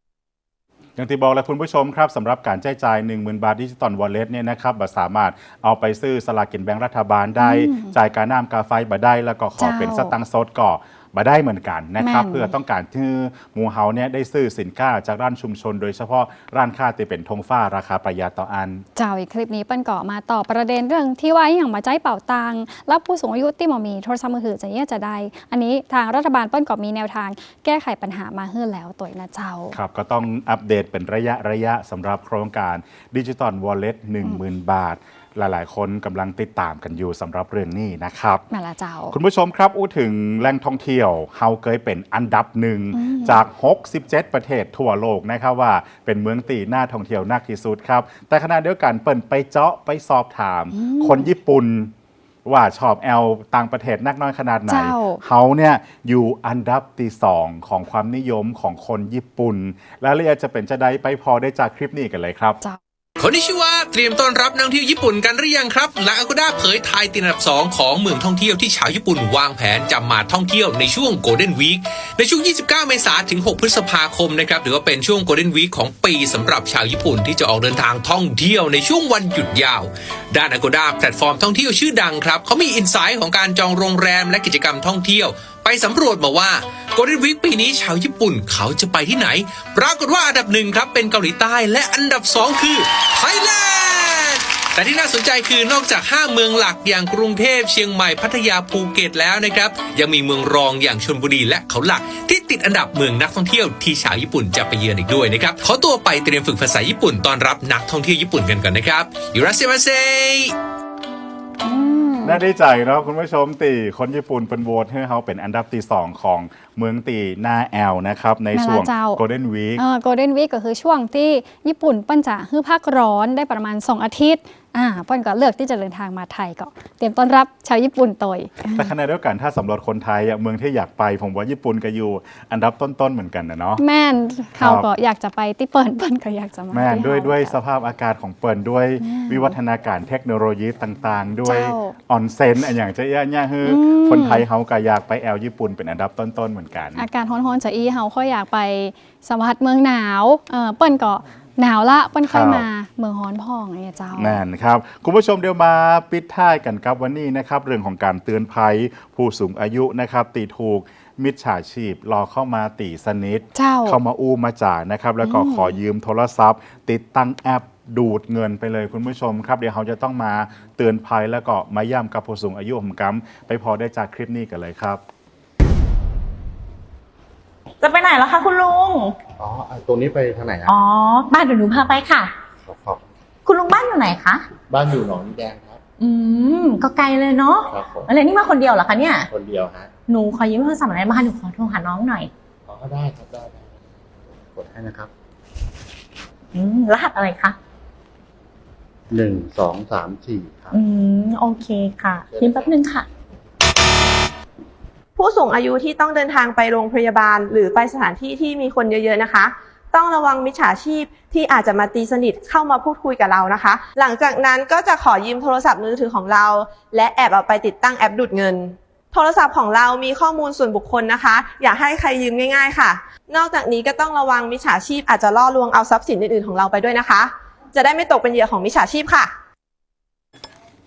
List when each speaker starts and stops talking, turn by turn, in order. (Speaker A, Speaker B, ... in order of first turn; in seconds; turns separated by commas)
Speaker A: 1.0-18.8, Speaker B: 7.4-7.9, Speaker B: 9.6-10.1, Speaker B: 12.0-12.5, Speaker B: 18.9-29.8, Speaker A: 29.7-38.4, Speaker B: 38.5-39.1, Speaker A: 39.1-51.9, Speaker B: 42.9-43.4, Speaker B: 50.7-51.3, Speaker A: 52.4-62.6, Speaker B: 54.7-55.2, Speaker C: 63.2-110.5, Speaker B: 111.6-112.4, Speaker A: 112.2-119.8, Speaker B: 118.5-119.2, Speaker B: 119.8-128.9, Speaker A: 128.7-133.8, Speaker B: 133.8-137.6, Speaker A: 134.6-134.9, Speaker A: 136.7-147.1, Speaker B: 139.0-139.5, Speaker B: 141.4-142.0, Speaker B: 143.6-144.4, Speaker B: 146.9-154.4, Speaker A: 152.3-152.7, Speaker A: 154.1-175.0, Speaker B: 163.5-164.0, Speaker B: 165.2-165.8, Speaker D: 177.8-179.2, Speaker E: 179.4-180.8, Speaker D: 180.7-182.3, Speaker E: 182.6-183.1, Speaker D: 183.4-184.4, Speaker E: 184.7-185.8, Speaker D: 186.0-189.3, Speaker E: 187.7-188.1, Speaker E: 189.3-189.9, Speaker D: 190.1-192.3, Speaker E: 192.7-195.1, Speaker D: 196.5-197.6, Speaker E: 199.1-200.8, Speaker D: 200.7-203.1, Speaker E: 202.3-202.7, Speaker F: 205.2-229.3